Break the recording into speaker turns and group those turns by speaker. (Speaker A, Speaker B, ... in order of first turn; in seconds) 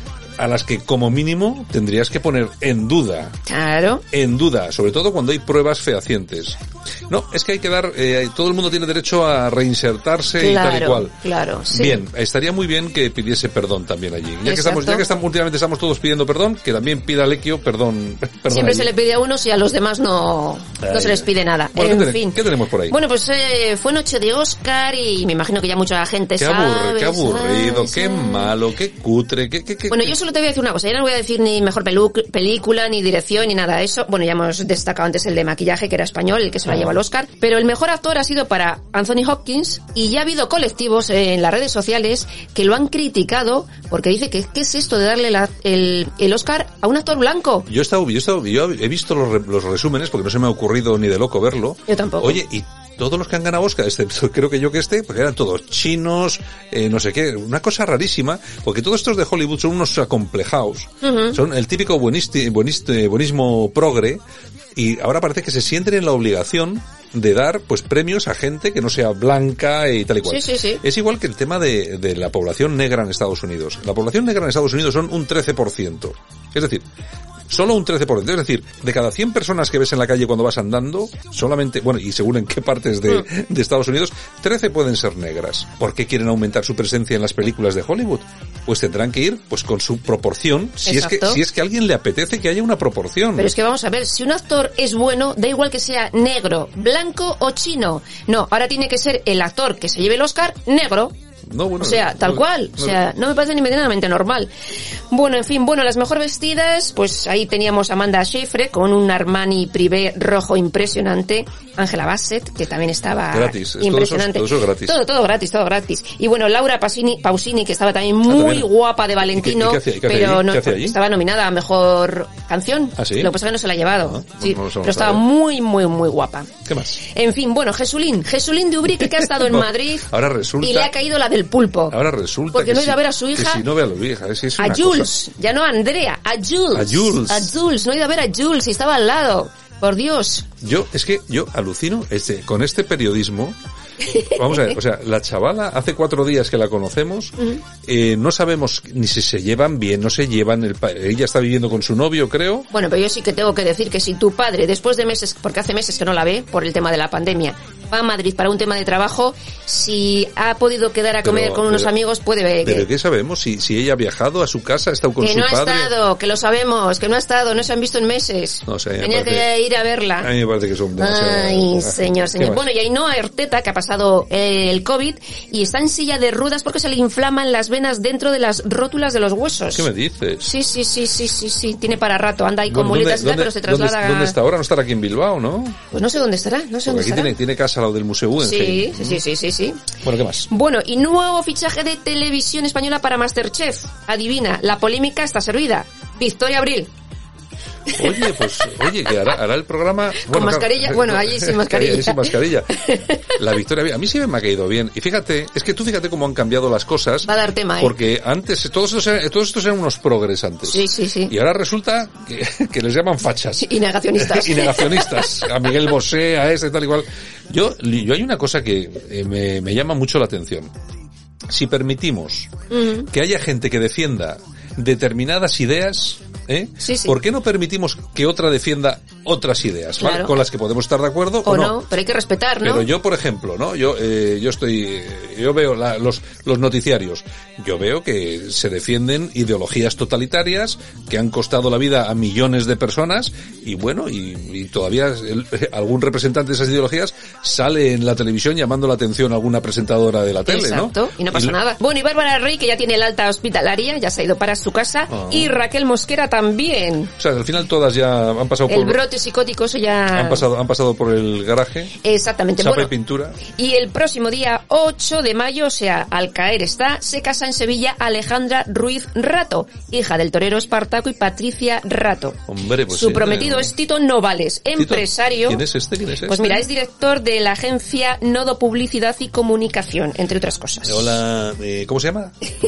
Speaker A: 0.4-3.4, 4.1-11.2, 11.7-18.9, 20.8-22.9, 26.4-30.1, 36.7-36.9, 47.7-64.2, 64.7-76.8, 77.5-93.5, 101.5-102.9, 113.3-114.9, 118.2-118.7, 119.3-121.0, 123.0-123.3, 124.1-125.2, 126.7-127.0, 129.4-130.9, 131.9-135.1, 136.7-137.5, 140.6-143.6, 144.2-152.7, 161.2-161.9, 162.6-165.9, 168.7-169.4, 170.2-172.6, 179.7-180.5, 182.7-185.8, 186.8-189.2, 190.0-190.5, 198.0-202.8, 203.3-220.7, 221.5-222.5, 223.1-231.7, 232.6-251.6, 255.1-255.5, 257.2-259.0, 260.1-261.9, 262.6-263.4, 272.5-273.7, 274.8-276.6, 280.8-282.3
Speaker B: 3.5-4.0, 10.3-12.0, 14.4-15.1, 18.5-28.5, 29.9-47.7, 51.9-52.4, 61.0-61.4, 70.2-70.8, 90.8-91.4, 93.4-101.1, 101.8-104.5, 105.1-126.5, 127.0-132.0, 132.5-133.6, 134.6-140.5, 144.1-144.7, 152.7-162.9, 165.2-170.3, 171.0-179.9, 180.4-184.4, 185.9-187.3, 188.4-189.9, 190.5-196.9, 197.9-198.9, 200.2-203.4, 207.2-208.0, 210.7-211.3, 213.6-215.7, 222.7-223.1, 226.8-227.2, 230.0-230.3, 231.4-232.9, 250.4-257.1, 258.7-260.4, 262.0-262.9, 263.5-275.6, 276.2-281.2